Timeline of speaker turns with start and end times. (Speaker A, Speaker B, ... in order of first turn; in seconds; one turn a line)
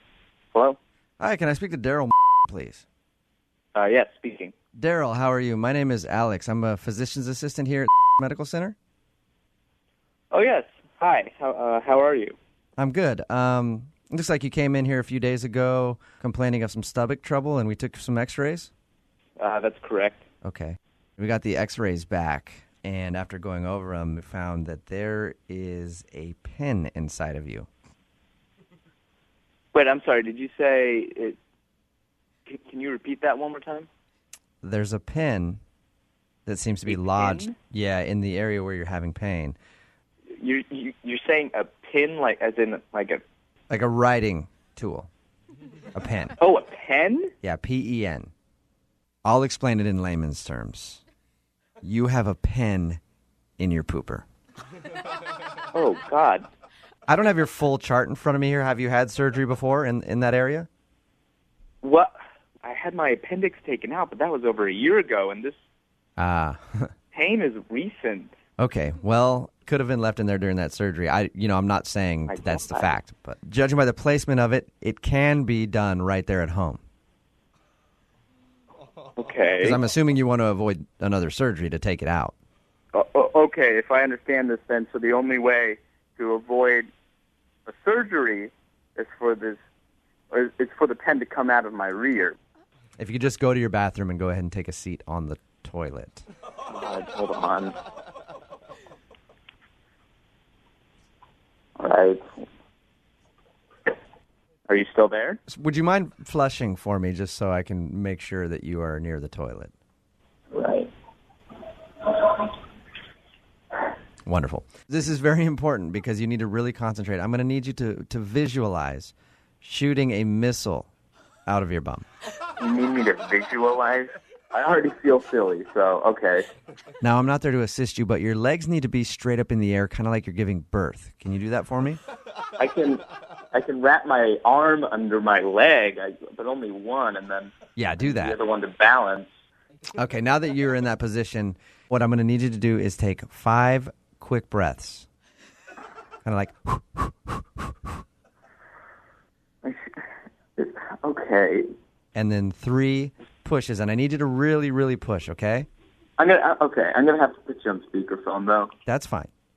Speaker A: 0.5-0.8
Speaker B: 1.2-2.8
Speaker A: 3.7-4.5
Speaker B: 4.7-8.8
Speaker A: 10.3-12.4
Speaker B: 12.8-18.7
Speaker A: 19.4-20.2
Speaker B: 20.4-27.7
Speaker A: 29.7-31.4
Speaker A: 32.5-33.9
Speaker B: 34.6-35.6
Speaker B: 36.5-39.5
Speaker A: 36.9-37.5
Speaker A: 40.4-43.2
Speaker B: 43.7-45.1
Speaker B: 45.9-46.3
Speaker A: 46.4-47.3
Speaker B: 47.4-48.3
Speaker B: 49.2-51.0
Speaker B: 51.8-53.0
Speaker B: 53.6-54.2
Speaker A: 55.7-56.5
Speaker B: 57.1-60.7
Speaker A: 61.8-65.5
Speaker B: 66.2-66.9
Speaker A: 67.1-68.3
Speaker B: 68.6-76.8
Speaker A: 72.3-72.9
Speaker A: 79.2-79.8
Speaker B: 79.6-82.3
Speaker A: 82.9-86.9
Speaker A: 87.7-89.6
Speaker A: 90.3-92.4
Speaker B: 93.0-96.2
Speaker A: 96.7-97.7
Speaker A: 101.8-102.4
Speaker A: 104.7-105.4
Speaker B: 105.5-109.7
Speaker A: 110.5-110.9
Speaker B: 114.2-120.9
Speaker B: 121.5-122.0
Speaker A: 122.6-126.5
Speaker B: 127.0-132.0
Speaker A: 132.6-139.3
Speaker B: 137.8-138.3
Speaker B: 140.0-145.1
Speaker B: 146.2-147.7
Speaker A: 149.6-150.0
Speaker A: 150.6-151.7
Speaker B: 152.1-155.7
Speaker A: 156.2-158.7
Speaker B: 158.8-159.3